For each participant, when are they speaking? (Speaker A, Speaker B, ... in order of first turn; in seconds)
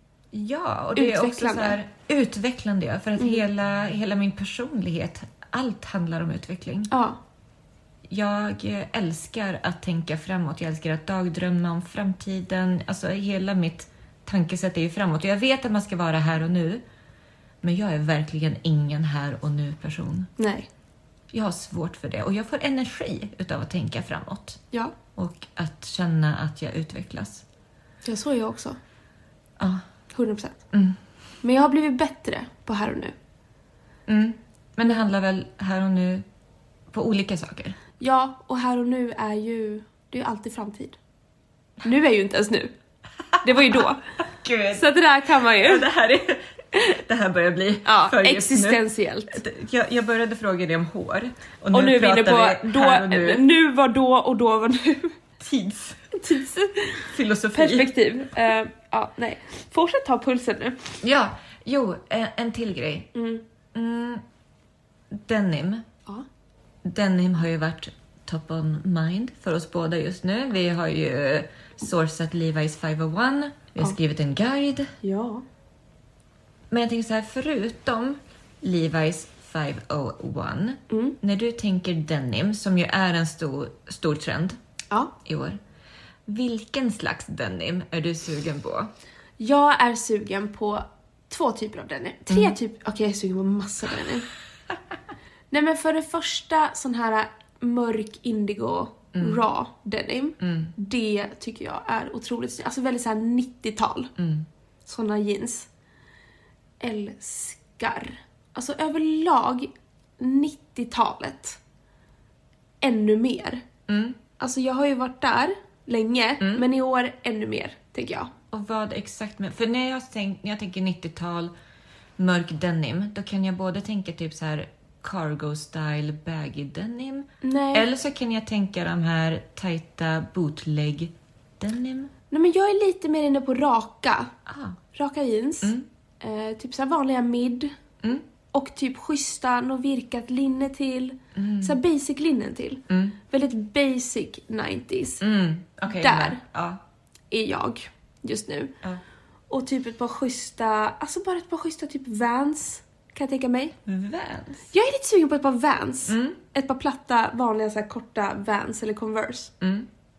Speaker A: 0.3-6.9, 8.1-16.8, 17.6-20.3, 21.3-24.6, 25.1-27.4, 29.6-29.8, 30.7-31.0, 34.1-36.2, 36.9-37.8, 43.4-44.9, 45.5-53.4, 55.4-56.1, 57.1-57.9, 61.0-63.1, 63.7-64.2, 65.1-65.8, 66.8-74.9, 76.7-84.6, 85.2-85.6, 86.3-88.9, 99.1-99.4, 100.4-100.7, 104.2-104.5, 113.9-114.2, 116.4-116.6, 118.5-121.5, 122.2-132.1, 134.5-134.8, 135.6-135.9, 141.3-141.8, 142.9-143.2, 145.2-146.8, 153.8-154.7, 156.1-156.4, 159.6-159.9
Speaker B: 0.9-1.8, 3.2-3.4, 6.9-7.2, 20.4-20.7, 28.0-28.8, 30.1-30.6, 31.4-33.1, 38.0-41.0, 41.8-42.7, 43.4-44.0, 44.7-45.8, 47.8-49.4, 51.7-55.1, 56.1-60.9, 63.1-63.4, 75.0-75.4, 80.9-81.2, 89.4-94.3, 95.5-104.1, 104.8-105.7, 106.8-111.6, 112.8-113.6, 114.4-118.3, 127.4-127.8, 132.3-134.3, 134.9-137.7, 138.5-145.2, 145.9-146.4, 147.3-148.7, 149.5-153.8, 154.7-159.5